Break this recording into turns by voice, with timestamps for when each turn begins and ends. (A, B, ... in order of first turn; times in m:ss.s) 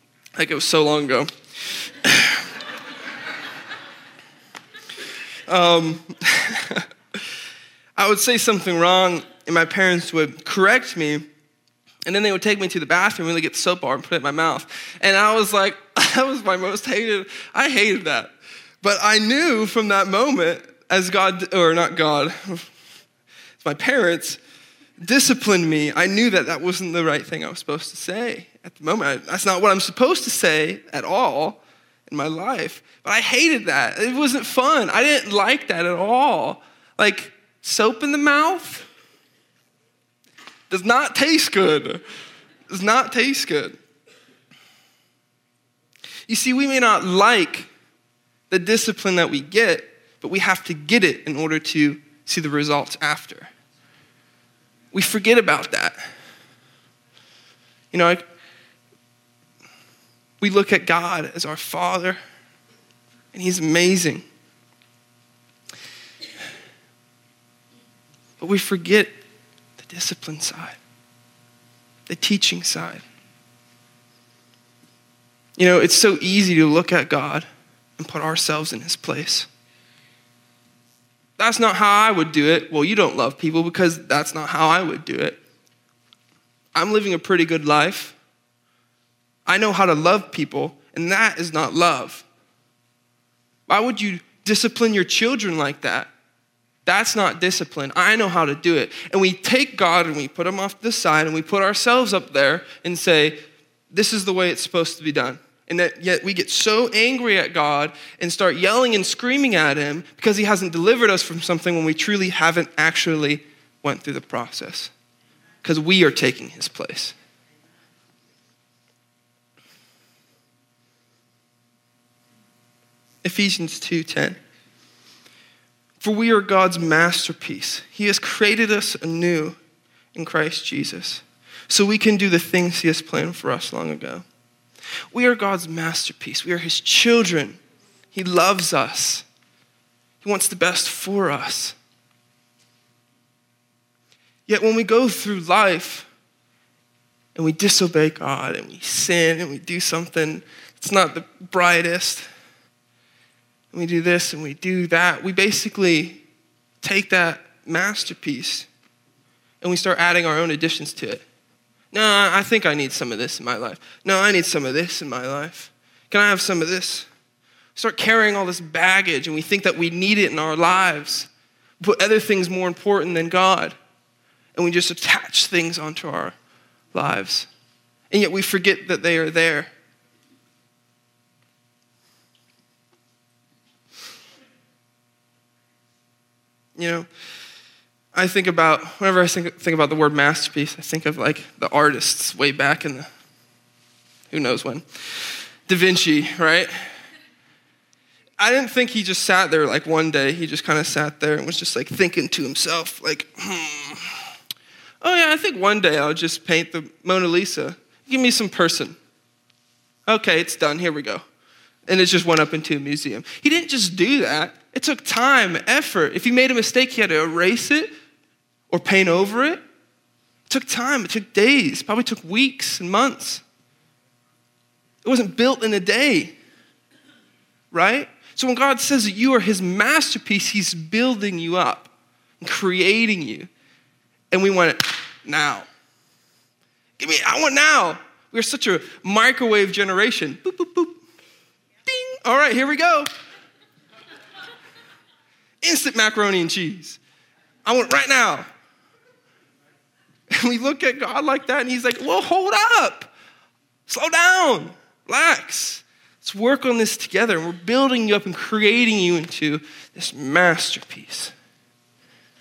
0:00.3-0:02.6 A
0:05.5-0:07.3 A
0:08.0-0:11.2 A
0:12.0-0:22.7 A
0:23.6-0:24.4 A
0:25.0-0:38.9 A
0:40.7-0:42.0 A
0:42.7-0:43.8 A
0:46.3-0:47.7 A
0:48.5-0:53.5 A
0:54.9-0:56.0 A
0:57.9-0:58.3 A
1:00.4-1:02.2 A
1:03.3-1:04.2 A
1:08.4-1:09.2 A
1:09.8-1:10.8 A
1:12.1-1:13.0 A
1:15.6-1:19.5 A
1:21.4-1:25.4 A
1:26.7-1:28.2 A
1:29.4-1:32.2 A
1:33.7-1:36.1 A
1:36.8-1:43.4 A
1:43.9-1:54.9 A
1:55.6-1:57.1 A
2:03.2-2:04.4 A
2:06.0-2:09.6 A
2:10.1-2:14.2 A
2:15.1-2:17.6 A
2:18.1-2:19.2 A
2:20.2-2:21.8 A
2:24.5-2:26.1 A
2:27.3-2:32.3 A
2:33.7-2:36.2 A
2:36.8-2:38.7 A
2:39.6-2:41.2 A
2:41.9-2:47.1 A
2:47.8-2:53.8 A
2:54.5-2:56.4 A
2:56.9-2:57.5 A
2:58.1-2:59.7 A
3:06.8-3:07.1 A
3:08.1-3:13.1 A
3:14.3-3:17.0 A
3:18.4-3:24.3 A
3:25.0-3:29.0 A
3:30.0-3:31.2 A
3:31.9-3:37.9 A
3:38.7-3:39.6 A
3:40.5-3:43.4 A
3:45.0-3:46.4 A
3:47.7-3:53.5 A
3:54.3-3:55.7 A
3:57.0-4:01.0 A
4:01.8-4:03.1 A
4:05.6-4:07.0 A
4:07.6-4:08.5 A
4:10.3-4:13.1 A
4:13.9-4:21.3 A